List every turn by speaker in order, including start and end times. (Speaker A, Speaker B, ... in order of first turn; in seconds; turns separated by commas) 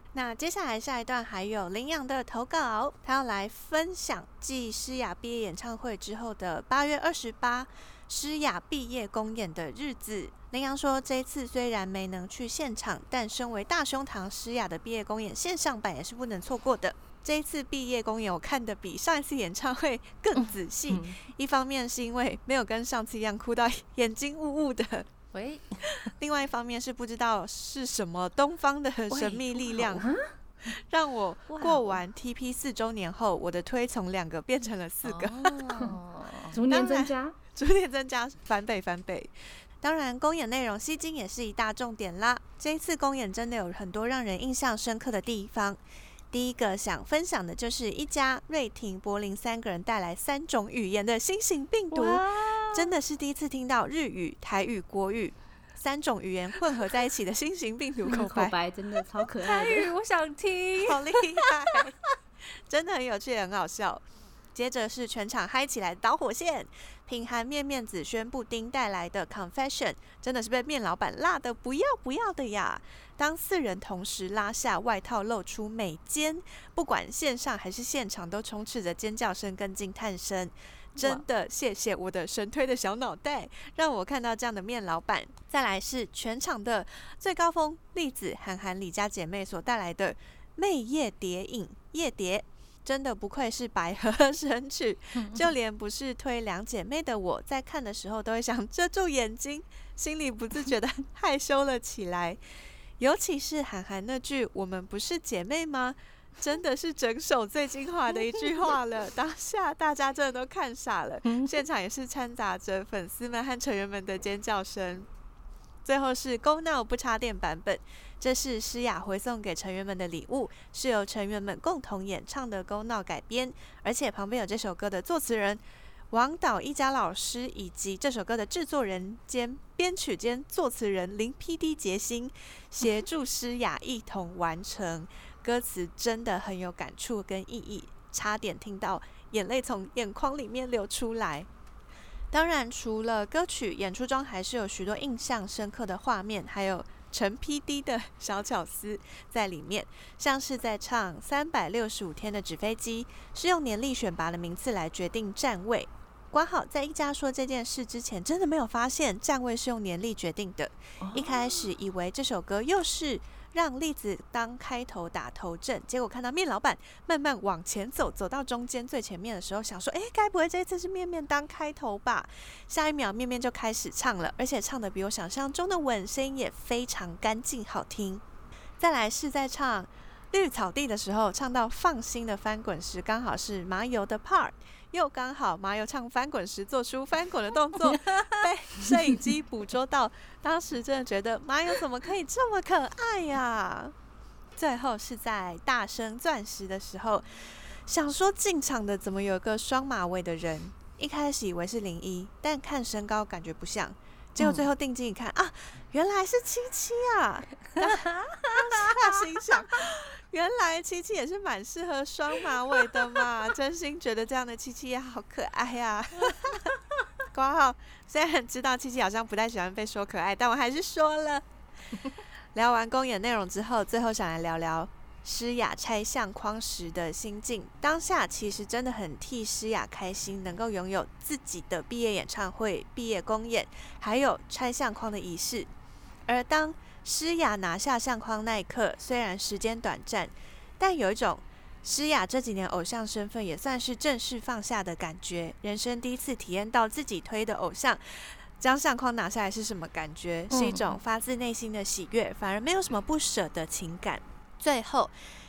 Speaker A: 0.1-25.1, Speaker B: 20.3-21.2, Speaker B: 25.3-26.0, Speaker A: 26.2-30.1, Speaker B: 29.1-30.0, Speaker C: 29.8-30.3, Speaker A: 30.6-35.6, Speaker B: 31.5-32.0, Speaker B: 35.0-36.5, Speaker C: 36.5-37.4, Speaker A: 36.5-45.8, Speaker A: 46.3-58.5, Speaker B: 51.9-52.9, Speaker C: 58.1-59.9, Speaker B: 59.4-61.8, Speaker A: 60.8-62.0, Speaker A: 62.7-102.4, Speaker B: 81.0-81.2, Speaker B: 95.2-95.5, Speaker A: 103.0-115.1, Speaker B: 111.2-111.6, Speaker A: 115.8-141.5, Speaker A: 142.3-178.2, Speaker B: 161.0-161.6, Speaker A: 178.8-193.9, Speaker B: 187.9-188.4, Speaker A: 194.5-216.7, Speaker B: 204.4-204.7, Speaker B: 207.8-209.2, Speaker A: 217.3-221.4, Speaker A: 222.5-235.7, Speaker A: 236.3-255.1, Speaker B: 250.5-250.9